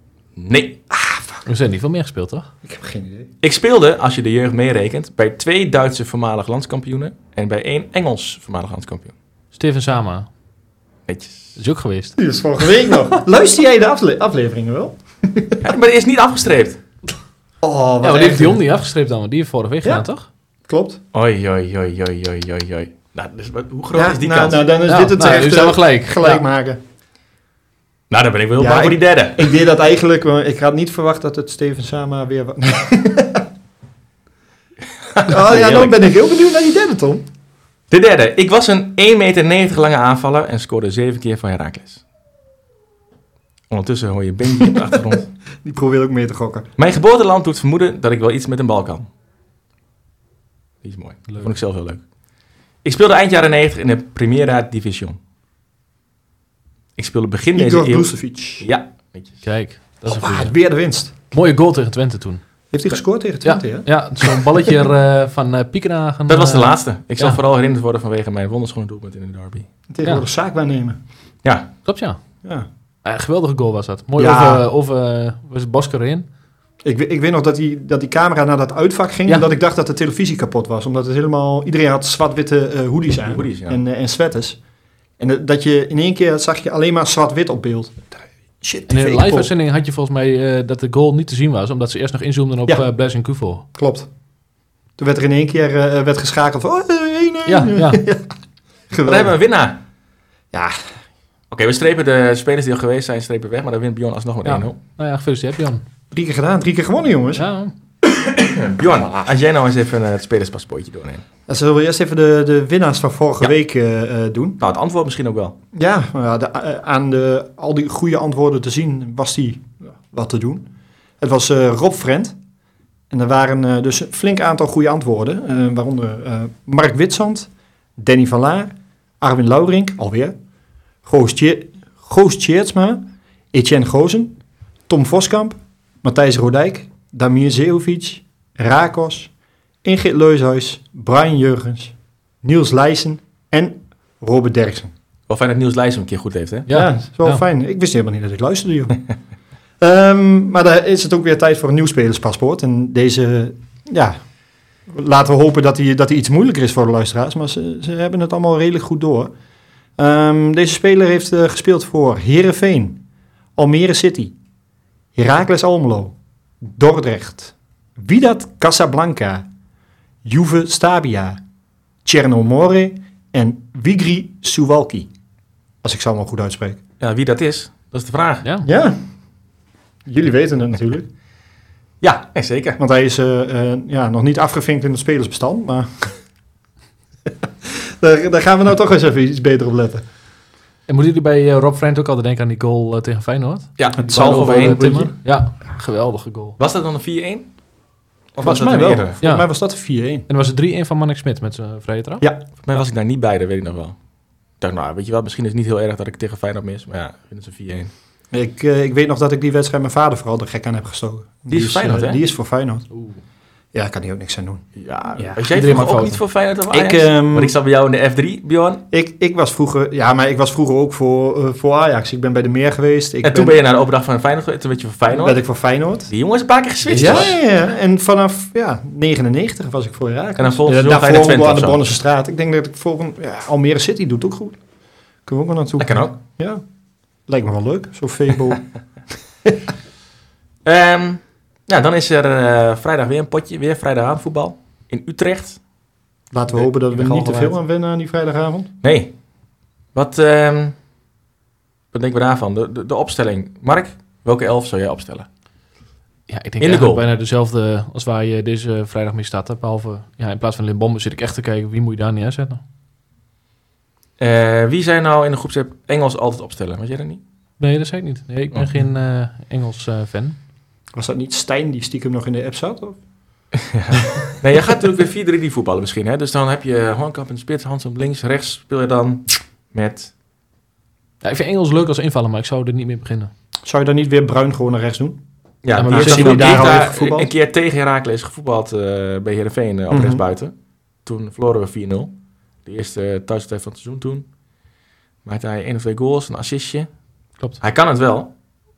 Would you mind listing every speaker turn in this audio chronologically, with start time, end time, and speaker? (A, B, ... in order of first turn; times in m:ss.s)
0:00.4-0:00.8 A
0:00.9-0:01.4 B
0:01.4-0:02.5 C
0:02.6-0:03.3 B
0:03.4-0:09.1 A
0:09.5-0:10.3 C
0:11.1-0:11.6 A
0:11.6-0:12.2 C
0:12.2-0:15.7 B
0:15.6-0:16.8 A
0:17.6-0:18.6 B
0:18.0-0:20.3 C
0:20.7-0:21.0 B
0:21.1-0:24.7 A
0:23.9-0:26.8 B
0:24.9-0:26.4 C
0:28.1-0:29.5 A
0:28.6-0:33.5 B
0:35.0-0:36.0 A
0:35.3-0:37.2 B
0:37.9-0:42.0 A
0:43.7-0:45.3 A
0:45.6-0:46.7 B
0:46.8-0:49.1 A
0:50.8-0:52.1 A
0:52.8-0:55.2 A
0:57.0-0:59.4 A
0:57.5-0:58.7 B
0:59.4-1:00.6 C
1:00.1-1:01.1 B
1:01.3-1:02.4 C
1:02.7-1:04.4 B
1:03.4-1:07.4 C
1:06.3-1:09.7 A
1:09.9-1:11.0 B
1:11.4-1:11.8 A
1:11.8-1:12.4 C
1:13.0-1:16.3 C
1:14.2-1:14.7 B
1:16.8-1:24.6 B
1:23.2-1:23.8 A
1:25.2-1:29.5 B
1:28.9-1:33.6 C
1:33.7-1:34.1 B
1:35.0-1:38.3 B
1:37.5-1:38.0 C
1:38.9-1:39.4 B
1:39.0-1:39.8 A
1:40.5-1:41.0 B
1:41.5-1:44.8 A
1:44.4-1:45.8 C
1:46.1-1:47.4 B
1:47.4-1:47.7 C
1:48.3-1:51.2 A
1:48.9-1:49.3 B
1:51.5-1:54.6 B
1:54.6-1:55.6 A
1:55.7-2:00.6 B
2:01.2-2:02.4 B
2:03.1-2:10.3 B
2:11.0-2:19.3 B
2:19.8-2:24.9 B
2:25.3-2:26.7 A
2:26.7-2:27.4 C
2:26.7-2:29.0 B
2:29.8-2:34.3 B
2:34.8-2:39.3 B
2:40.0-2:43.0 B
2:43.6-2:44.3 B
2:45.2-2:49.4 B
2:50.2-2:51.4 B
2:52.0-2:55.1 B
2:55.8-2:56.8 B
2:57.0-2:58.4 A
2:58.4-2:58.7 C
2:58.6-2:59.0 B
3:00.0-3:01.1 B
3:02.0-3:02.8 A
3:02.8-3:06.2 B
3:07.4-3:10.0 B
3:10.9-3:16.6 C
3:13.8-3:15.0 A
3:14.0-3:15.1 B
3:16.6-3:17.6 A
3:18.3-3:19.2 A
3:18.4-3:20.3 B
3:19.2-3:19.5 C
3:20.3-3:22.2 C
3:22.6-3:24.0 A
3:24.6-3:27.9 A
3:28.3-3:32.9 B
3:31.5-3:32.2 A
3:32.9-3:33.2 C
3:33.7-3:34.6 B
3:34.8-3:38.8 A
3:35.2-3:35.4 B
3:35.5-3:36.2 C
3:36.7-3:37.5 B
3:38.9-3:43.6 B
3:43.2-3:45.4 A
3:45.1-3:46.1 B
3:46.1-3:47.4 A
3:46.9-3:54.6 B
3:50.4-3:51.8 A
3:55.2-3:56.6 B
3:55.8-3:56.2 A
3:57.3-3:58.7 B
4:00.6-4:05.6 A
4:06.3-4:08.7 B
4:06.5-4:07.6 A
4:08.8-4:09.3 A
4:09.9-4:10.8 A
4:11.9-4:15.3 A
4:16.3-4:22.6 C
4:16.6-4:17.0 A
4:24.2-4:27.2 A
4:27.6-4:30.4 C
4:30.9-4:33.0 B
4:33.6-4:40.1 A
4:41.2-4:43.3 C
4:43.6-4:45.2 B
4:45.6-4:54.3 A
4:45.7-4:46.6 C
4:45.8-4:47.3 B
4:49.9-4:50.2 B
4:55.2-4:56.9 A
4:57.6-4:58.4 A